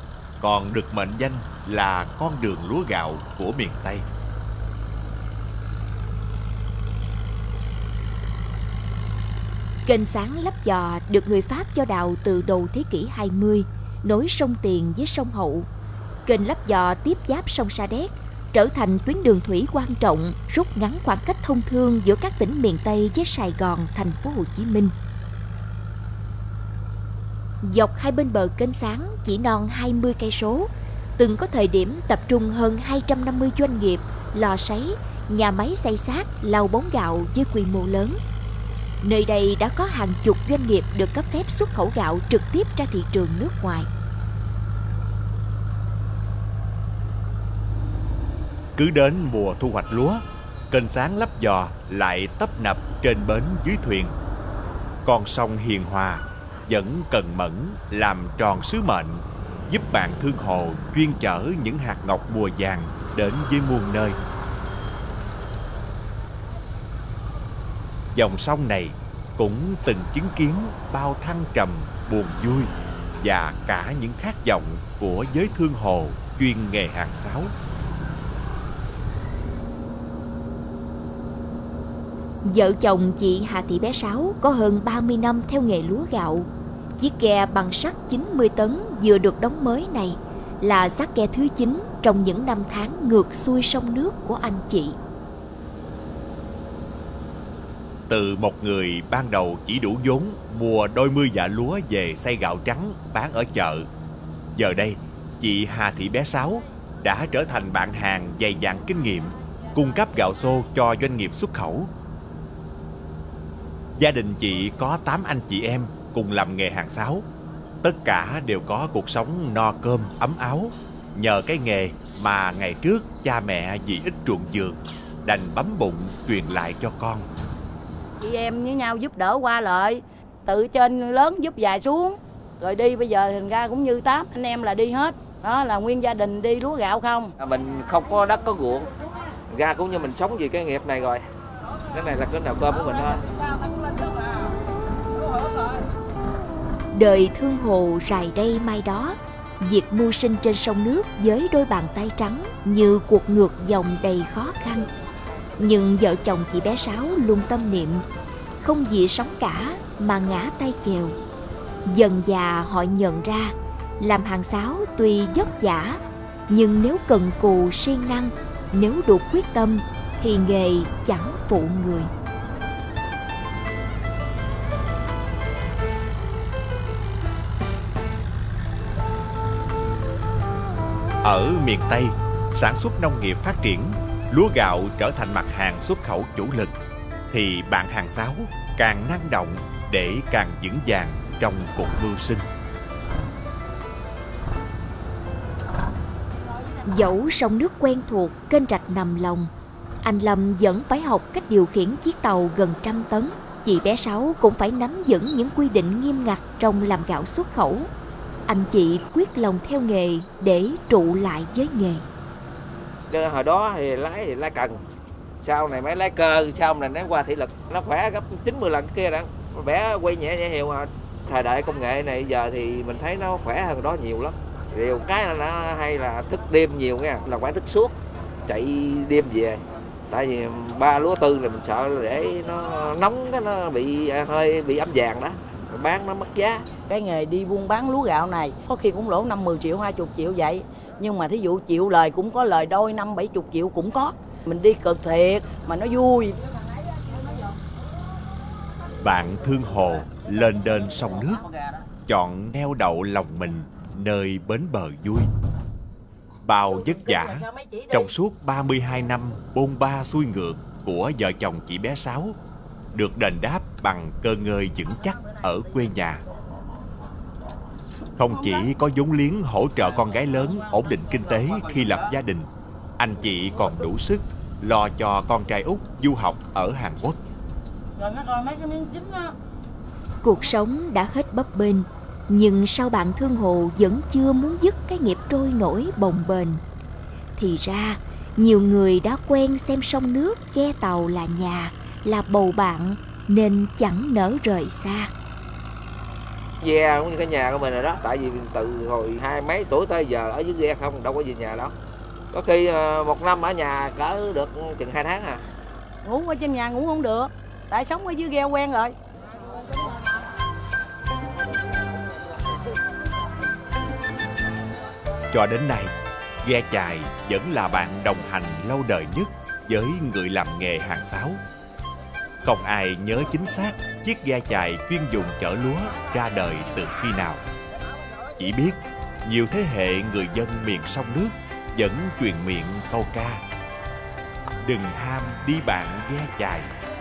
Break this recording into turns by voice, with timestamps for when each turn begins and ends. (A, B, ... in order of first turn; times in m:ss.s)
0:00.4-0:04.0 A
0:09.8-0:15.7 B
0:16.2-0:24.9 B
0:27.6-0:38.2 B
0:39.0-0:43.9 B
0:48.8-0:54.2 A
0:55.0-1:04.2 A
1:08.1-1:17.5 A
1:22.4-1:35.0 B
1:38.1-1:43.9 A
1:44.6-1:51.9 A
1:54.0-1:57.2 A
1:57.8-2:07.3 A
2:08.2-2:17.3 C
2:17.4-2:18.9 D
2:19.5-2:21.2 D
2:21.9-2:23.2 D
2:26.9-2:34.9 B
2:35.6-2:38.0 B
2:38.6-2:41.2 B
2:41.9-2:52.1 B
3:01.2-3:06.7 A
3:07.3-3:12.5 A
3:16.9-3:19.5 B
3:20.0-3:27.9 B
3:28.5-3:32.0 B
3:33.1-3:34.8 D
3:35.4-3:47.9 D
3:48.5-3:49.6 D
3:50.1-3:56.6 D
3:56.9-4:06.4 C
4:09.0-4:11.4 A
4:12.1-4:15.3 A
4:16.4-4:22.4 A
4:22.9-4:26.2 A
4:28.2-4:37.2 A
4:38.0-4:39.3 C
4:40.2-4:46.6 B
4:47.4-4:55.1 B
4:56.6-5:01.7 D
5:02.3-5:05.4 D
5:06.0-5:09.0 C
5:15.3-5:15.9 A
5:16.4-5:21.4 A
5:22.4-5:27.4 A
5:28.4-5:33.4 A
5:34.6-5:36.7 A